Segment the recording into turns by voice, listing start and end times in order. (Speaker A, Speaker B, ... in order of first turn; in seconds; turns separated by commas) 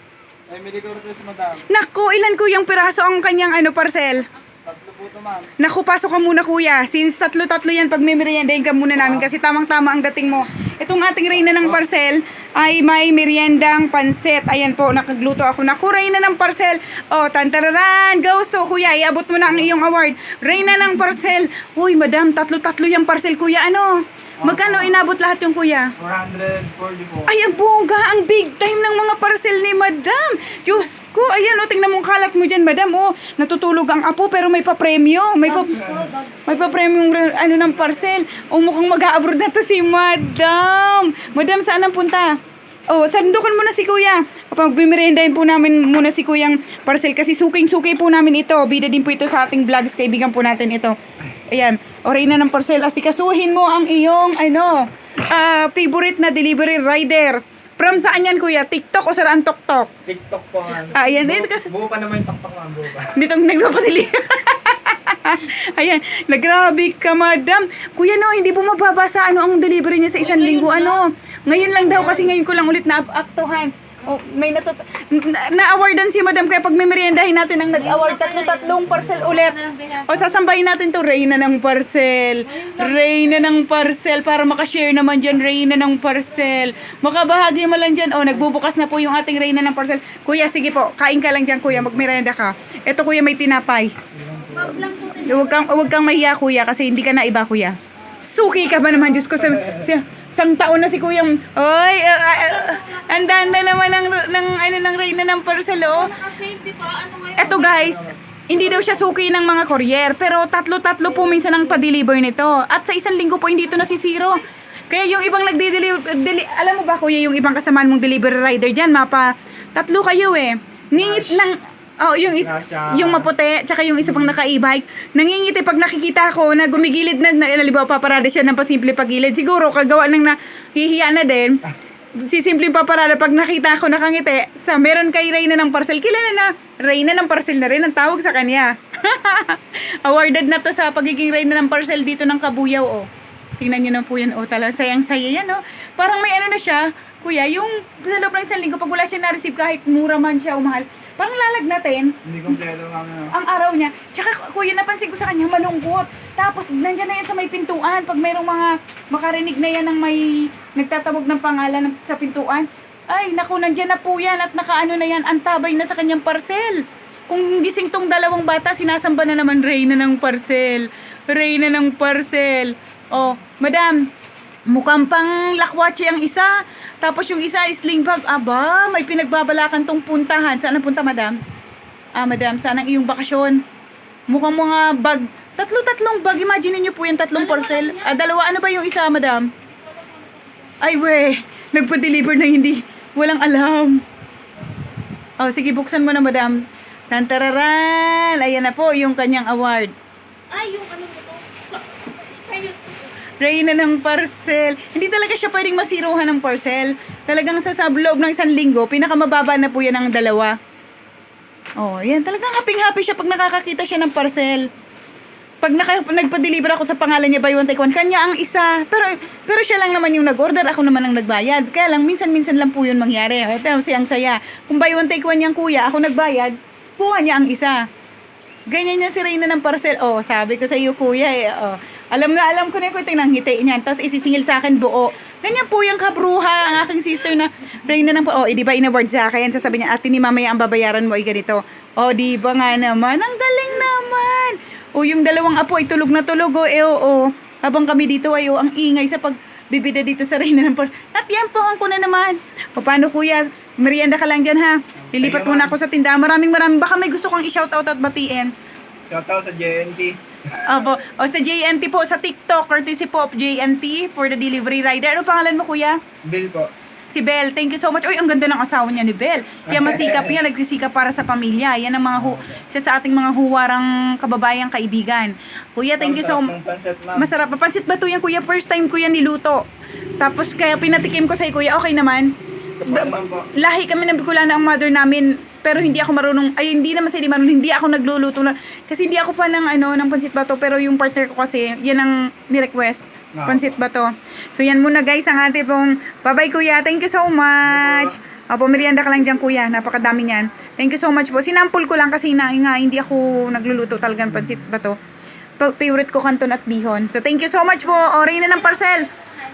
Speaker A: 0.5-1.7, Speaker B: 1.7-4.3, Speaker A: 4.6-5.5, Speaker B: 5.6-25.9, Speaker A: 9.0-9.3, Speaker A: 11.3-11.8, Speaker A: 19.4-19.7, Speaker A: 24.4-25.0, Speaker A: 26.0-27.3, Speaker B: 27.3-59.9, Speaker C: 35.5-36.8, Speaker A: 35.7-36.1, Speaker A: 60.0-63.2, Speaker B: 60.9-61.7, Speaker B: 63.1-94.0, Speaker C: 70.2-71.0, Speaker C: 77.8-80.2, Speaker C: 82.5-83.2, Speaker A: 91.7-92.1, Speaker A: 94.1-94.8, Speaker C: 94.4-96.1, Speaker B: 95.1-106.2, Speaker A: 99.2-99.9, Speaker C: 102.3-103.7, Speaker C: 105.8-108.0, Speaker B: 107.4-131.6, Speaker C: 111.2-111.6, Speaker A: 120.9-121.4, Speaker A: 122.3-123.3, Speaker A: 124.0-124.4, Speaker B: 132.2-143.1, Speaker B: 143.6-152.2, Speaker A: 152.2-153.3, Speaker B: 153.3-174.1, Speaker B: 174.7-181.4, Speaker B: 182.2-183.6, Speaker B: 184.3-189.5, Speaker C: 187.3-188.3, Speaker C: 189.7-190.8, Speaker B: 190.8-194.0, Speaker B: 195.4-199.9, Speaker C: 200.5-203.1, Speaker B: 203.4-210.6, Speaker B: 211.8-214.7, Speaker B: 215.6-227.8, Speaker B: 228.7-258.5, Speaker A: 255.1-255.8, Speaker A: 259.1-260.2, Speaker B: 260.6-266.0, Speaker A: 266.2-266.7, Speaker B: 267.1-276.6, Speaker A: 269.7-270.4, Speaker A: 272.2-272.6, Speaker A: 276.0-277.3, Speaker B: 277.1-279.7, Speaker B: 280.2-305.0, Speaker A: 282.9-283.5, Speaker A: 293.3-293.8, Speaker A: 297.6-298.2, Speaker B: 305.6-309.1